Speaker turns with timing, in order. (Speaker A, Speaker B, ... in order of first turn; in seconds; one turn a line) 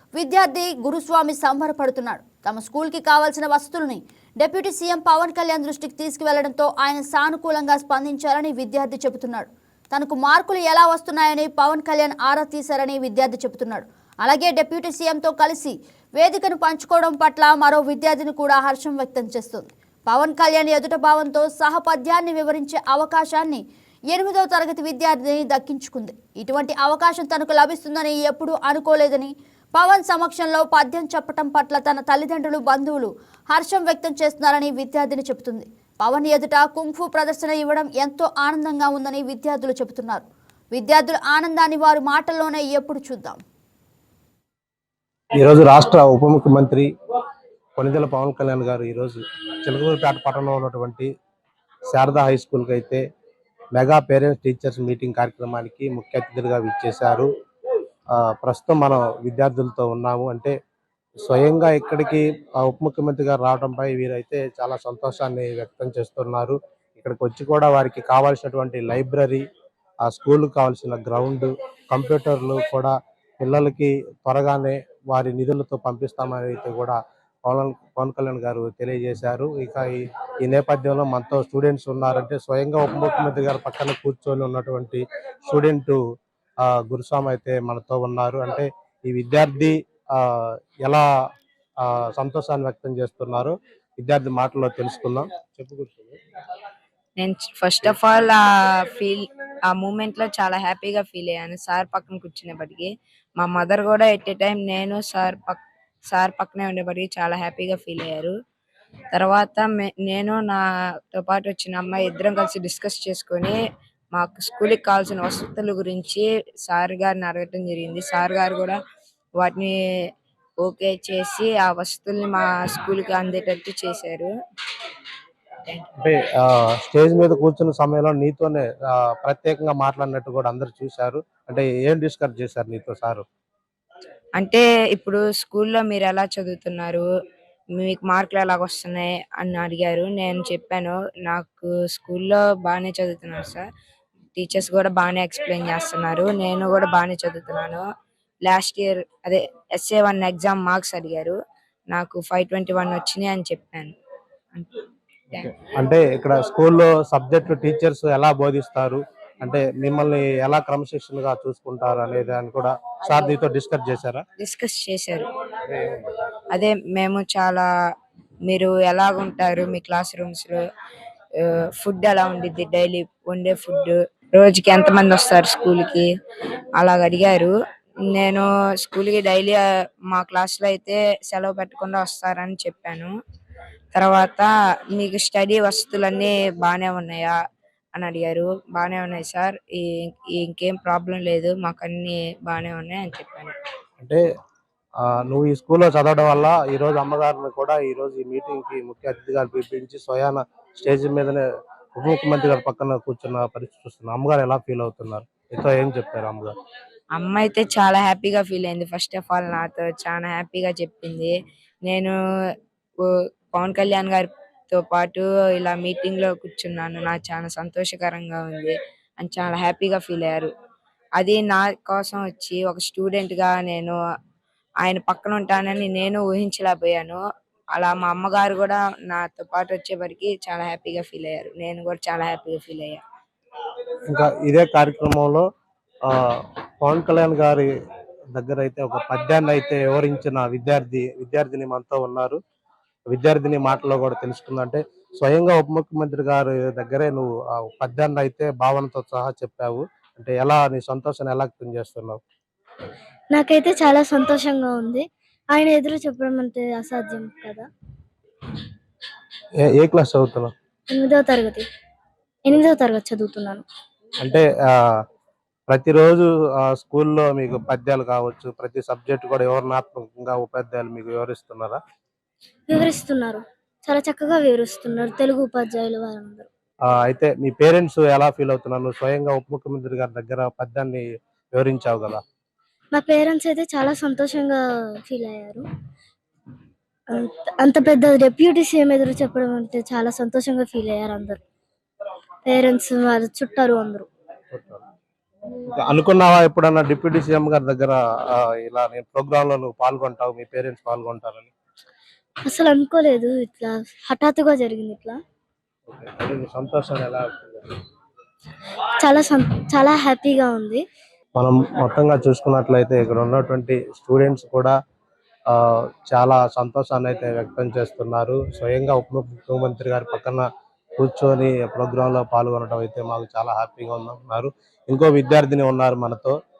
Speaker A: 0.2-23.6
Speaker A: 24.1-29.3
Speaker A: 29.8-40.2
Speaker A: 40.8-43.4
Speaker B: 45.4-46.9
Speaker B: 47.8-51.1
Speaker B: 51.9-53.0
Speaker B: 53.8-57.3
Speaker B: 58.2-60.5
Speaker B: 61.2-69.4
Speaker B: 70.0-86.0
Speaker B: 86.6-90.2
Speaker B: 91.8-96.2
Speaker C: 97.2-98.4
Speaker C: 98.9-108.3
Speaker C: 109.1-110.6
Speaker C: 111.1-113.5
Speaker C: 114.1-118.8
Speaker C: 119.4-119.7
Speaker C: 120.6-124.3
Speaker B: 126.0-133.2
Speaker C: 134.3-137.0
Speaker C: 137.8-143.7
Speaker C: 144.3-147.8
Speaker C: 148.4-151.4
Speaker C: 151.9-153.9
Speaker B: 155.3-164.2
Speaker C: 164.4-165.3
Speaker B: 165.7-165.9
Speaker C: 166.5-167.7
Speaker C: 168.5-170.6
Speaker C: 171.8-176.1
Speaker C: 176.8-177.5
Speaker C: 178.1-183.1
Speaker C: 183.9-187.3
Speaker C: 187.9-193.5
Speaker B: 195.0-201.4
Speaker B: 201.9-206.5
Speaker C: 207.2-211.3
Speaker C: 211.8-212.1
Speaker C: 213.5-220.5
Speaker C: 221.2-223.9
Speaker C: 224.8-227.2
Speaker C: 227.7-233.0
Speaker B: 234.1-235.4
Speaker B: 236.1-237.7
Speaker B: 238.3-242.4
Speaker B: 243.1-252.2
Speaker D: 253.3-257.6
Speaker B: 259.6-260.5
Speaker D: 260.9-261.6
Speaker D: 262.4-263.6
Speaker B: 264.2-264.7
Speaker B: 265.7-271.8
Speaker D: 272.7-276.4
Speaker B: 276.9-282.2
Speaker D: 282.9-285.6
Speaker D: 287.1-291.4
Speaker D: 292.4-294.1
Speaker B: 294.5-294.8
Speaker B: 295.7-301.5
Speaker D: 302.5-305.2
Speaker B: 305.9-307.7
Speaker D: 309.0-310.8
Speaker B: 311.4-314.7
Speaker B: 315.5-320.4
Speaker B: 321.0-326.4